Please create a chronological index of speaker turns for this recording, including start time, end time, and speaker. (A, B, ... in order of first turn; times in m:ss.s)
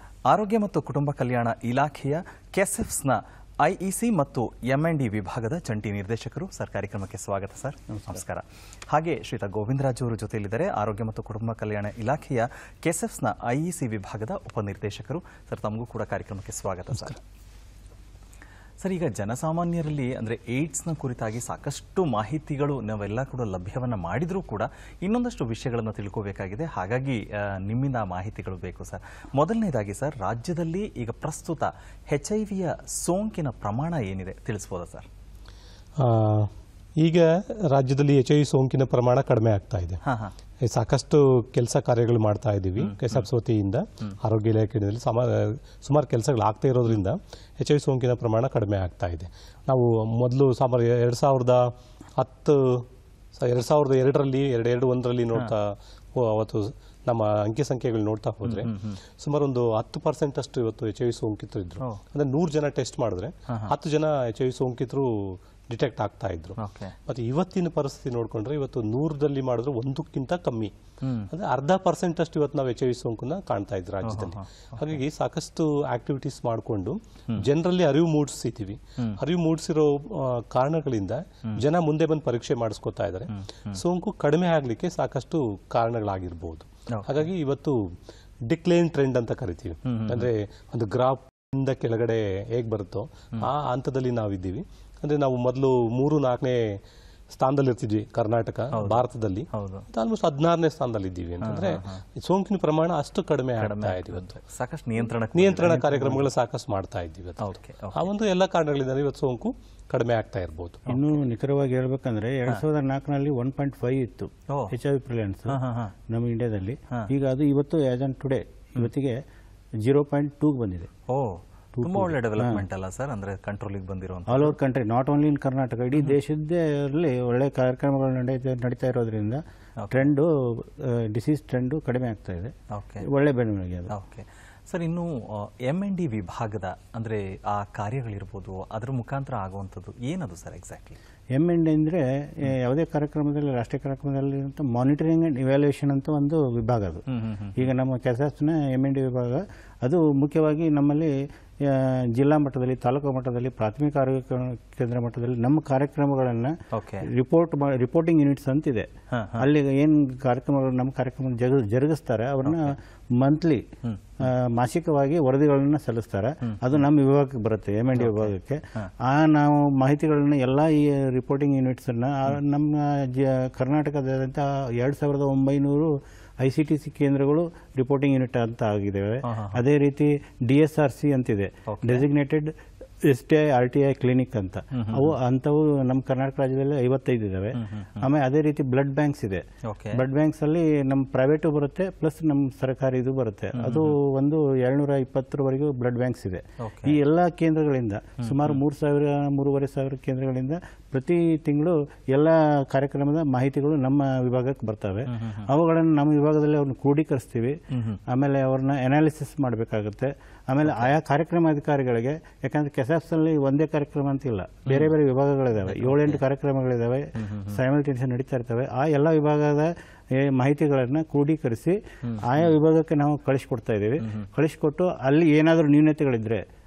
0:00.3-0:17.2 A
0:18.8-0:35.1 A
0:36.0-0:40.0 B
0:40.0-0:40.3 A
0:40.6-1:10.7 B
0:42.8-0:43.2 A
0:58.4-0:59.0 A
1:03.5-1:03.8 A
1:06.6-1:07.0 A
1:11.0-1:11.3 A
1:11.3-1:27.9 B
1:14.0-1:15.0 A
1:23.3-1:23.8 A
1:26.9-1:27.3 A
1:28.5-1:36.8 B
1:29.8-1:30.3 A
1:37.3-1:44.4 B
1:38.7-1:39.8 A
1:41.4-1:42.0 A
1:43.6-1:46.3 A
1:45.3-1:50.9 B
1:47.4-1:48.1 A
1:50.9-1:59.2 C
1:50.9-1:51.1 A
1:54.5-1:54.7 A
1:55.5-1:55.9 A
1:59.8-2:00.9 C
2:01.1-2:04.6 A
2:01.7-2:02.6 C
2:04.3-2:13.9 C
2:09.8-2:10.1 A
2:12.7-2:13.0 A
2:13.9-2:21.0 A
2:21.3-2:27.0 C
2:27.1-2:27.7 A
2:27.6-2:43.7 C
2:36.7-2:37.0 A
2:39.1-2:39.5 A
2:42.4-2:42.7 A
2:43.8-2:44.1 A
2:44.2-3:46.4 C
2:46.4-2:46.7 A
2:47.9-2:48.9 A
2:59.2-2:59.6 A
3:01.7-3:02.0 A
3:04.7-3:05.2 A
3:07.6-3:08.1 A
3:09.7-3:10.0 A
3:13.5-3:14.0 A
3:16.6-3:17.0 A
3:18.2-3:18.6 A
3:25.1-3:25.5 A
3:27.7-3:28.0 A
3:30.6-3:30.9 A
3:34.7-3:34.9 A
3:35.6-3:36.2 A
3:37.2-3:37.6 A
3:42.0-3:42.5 A
3:44.0-3:44.3 A